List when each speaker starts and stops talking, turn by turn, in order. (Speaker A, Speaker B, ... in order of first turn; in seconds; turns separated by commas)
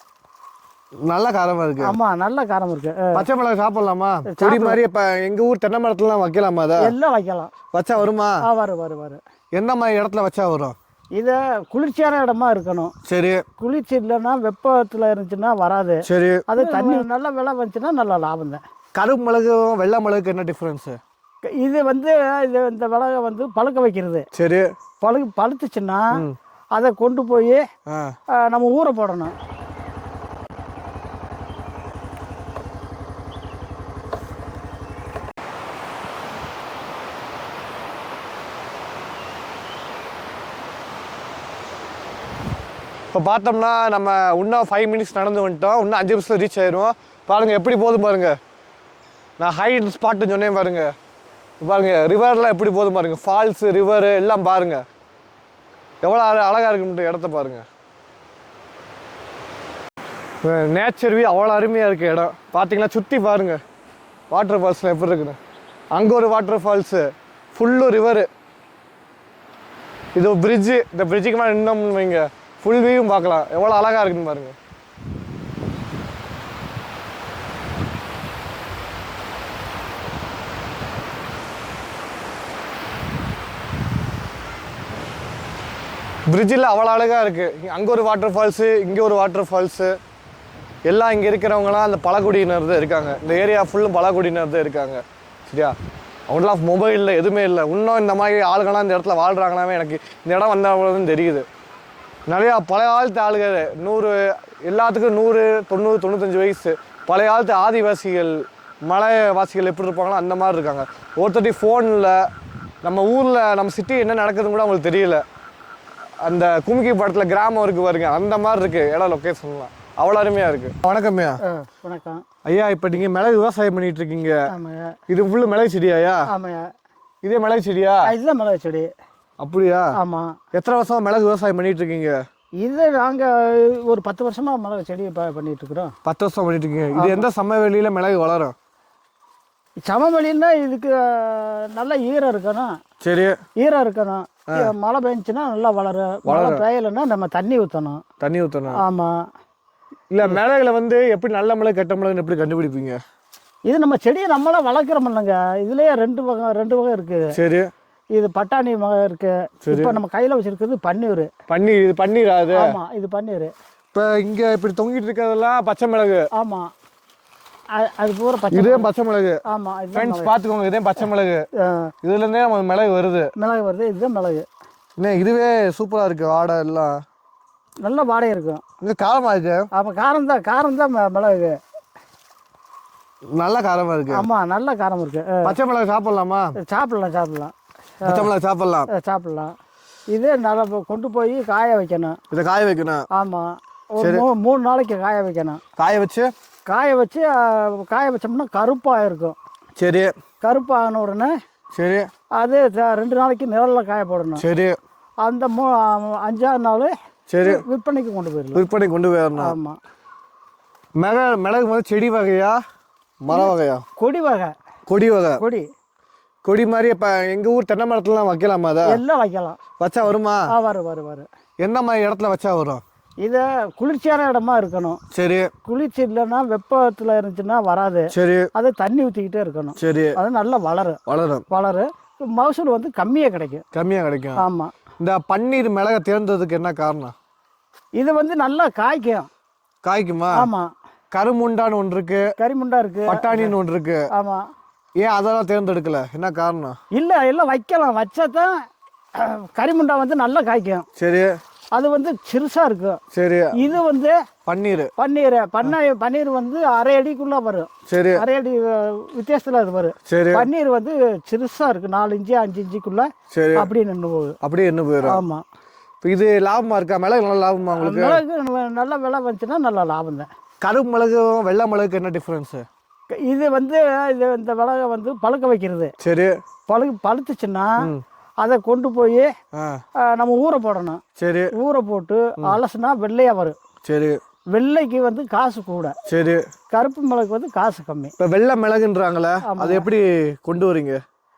Speaker A: 1.1-1.9, Speaker B: 1.8-3.2, Speaker A: 3.1-6.9, Speaker B: 4.3-4.8, Speaker B: 6.8-7.5, Speaker A: 7.7-8.4, Speaker B: 8.4-9.2, Speaker A: 9.5-10.8, Speaker B: 11.1-12.9, Speaker A: 13.0-13.4, Speaker B: 13.6-18.6, Speaker A: 16.0-17.0, Speaker A: 18.9-21.0, Speaker B: 21.4-24.2, Speaker A: 24.3-24.7, Speaker B: 25.0-26.2, Speaker B: 26.7-27.6, Speaker A: 27.9-28.1, Speaker B: 28.3-29.3, Speaker A: 43.1-48.4, Speaker A: 49.4-50.9, Speaker A: 51.6-54.8, Speaker A: 56.0-57.6, Speaker A: 60.4-63.6, Speaker A: 64.3-65.4, Speaker A: 65.9-68.3, Speaker A: 70.2-74.5, Speaker A: 86.3-89.9, Speaker A: 90.8-95.7, Speaker A: 96.3-101.5, Speaker A: 102.3-112.2, Speaker A: 112.8-115.2, Speaker A: 116.2-121.4, Speaker B: 121.4-122.2, Speaker A: 122.5-124.4, Speaker B: 124.5-125.0, Speaker A: 125.1-126.2, Speaker B: 126.3-126.7, Speaker A: 127.2-128.1, Speaker B: 128.0-128.9, Speaker A: 129.4-129.9, Speaker B: 129.9-130.4, Speaker A: 130.5-132.2, Speaker B: 132.6-135.9, Speaker A: 136.0-138.5, Speaker B: 136.9-137.2, Speaker B: 139.8-142.8, Speaker A: 143.0-143.4, Speaker B: 143.6-148.0, Speaker A: 146.2-146.6, Speaker A: 148.2-148.8, Speaker B: 148.7-149.1, Speaker A: 150.1-153.0, Speaker B: 153.7-157.3, Speaker A: 157.3-157.7, Speaker B: 158.1-161.3, Speaker A: 159.7-160.0, Speaker A: 161.5-162.8, Speaker B: 162.5-163.5, Speaker A: 163.9-166.3, Speaker B: 166.3-166.7, Speaker B: 167.7-168.9, Speaker A: 168.5-169.4, Speaker B: 169.5-170.3, Speaker A: 169.9-171.4, Speaker B: 171.6-171.9, Speaker A: 172.0-173.3, Speaker B: 173.4-174.4, Speaker A: 175.0-176.9, Speaker B: 177.8-178.6, Speaker A: 178.8-179.7, Speaker B: 179.7-181.6, Speaker A: 183.3-184.3, Speaker B: 184.1-185.6, Speaker A: 185.4-186.5, Speaker B: 186.6-188.3, Speaker A: 188.0-188.9, Speaker B: 188.9-189.5, Speaker B: 190.1-192.2, Speaker A: 192.3-193.0, Speaker B: 193.1-195.6, Speaker A: 194.0-194.2, Speaker A: 195.8-196.3, Speaker B: 196.7-199.4, Speaker A: 199.8-200.1, Speaker B: 200.4-201.3, Speaker A: 201.7-202.1, Speaker B: 202.3-204.4, Speaker A: 204.4-204.8, Speaker B: 205.2-208.6, Speaker A: 207.3-207.6, Speaker A: 208.5-209.6, Speaker B: 209.4-209.8, Speaker A: 211.0-212.6, Speaker A: 213.2-213.8, Speaker B: 213.3-214.5, Speaker A: 214.9-215.4, Speaker B: 215.4-215.6, Speaker A: 216.4-219.0, Speaker B: 218.8-219.6, Speaker A: 219.8-220.5, Speaker B: 220.5-221.2, Speaker A: 221.6-222.8, Speaker B: 223.2-225.0, Speaker A: 225.1-225.5, Speaker B: 225.6-233.6, Speaker A: 228.1-228.5, Speaker A: 229.8-230.2, Speaker A: 231.1-231.4, Speaker A: 233.7-234.4, Speaker B: 234.4-234.7, Speaker A: 235.0-237.1, Speaker B: 238.0-239.3, Speaker A: 239.8-240.5, Speaker B: 240.3-240.7, Speaker A: 241.1-242.2, Speaker B: 242.4-243.5, Speaker A: 243.1-244.0, Speaker B: 244.1-244.4, Speaker A: 245.0-246.7, Speaker B: 246.9-248.5, Speaker B: 249.2-250.8, Speaker A: 251.0-251.3, Speaker B: 251.7-253.0, Speaker A: 253.1-253.7, Speaker B: 253.5-254.1, Speaker A: 254.4-254.9, Speaker B: 255.0-264.4, Speaker A: 257.9-258.2, Speaker A: 260.1-260.5, Speaker A: 263.3-263.7, Speaker A: 264.4-265.2, Speaker B: 265.0-265.4, Speaker A: 266.0-268.2, Speaker B: 267.7-270.3, Speaker A: 270.6-272.6, Speaker B: 273.1-275.9, Speaker A: 276.0-276.3, Speaker B: 276.7-277.9, Speaker B: 278.4-279.3, Speaker A: 279.5-279.8, Speaker B: 280.0-281.0, Speaker A: 281.2-281.5, Speaker B: 281.5-283.6, Speaker A: 283.8-284.2, Speaker B: 284.5-285.9, Speaker A: 286.1-286.4, Speaker B: 286.7-288.1, Speaker A: 288.2-291.0, Speaker B: 289.4-289.9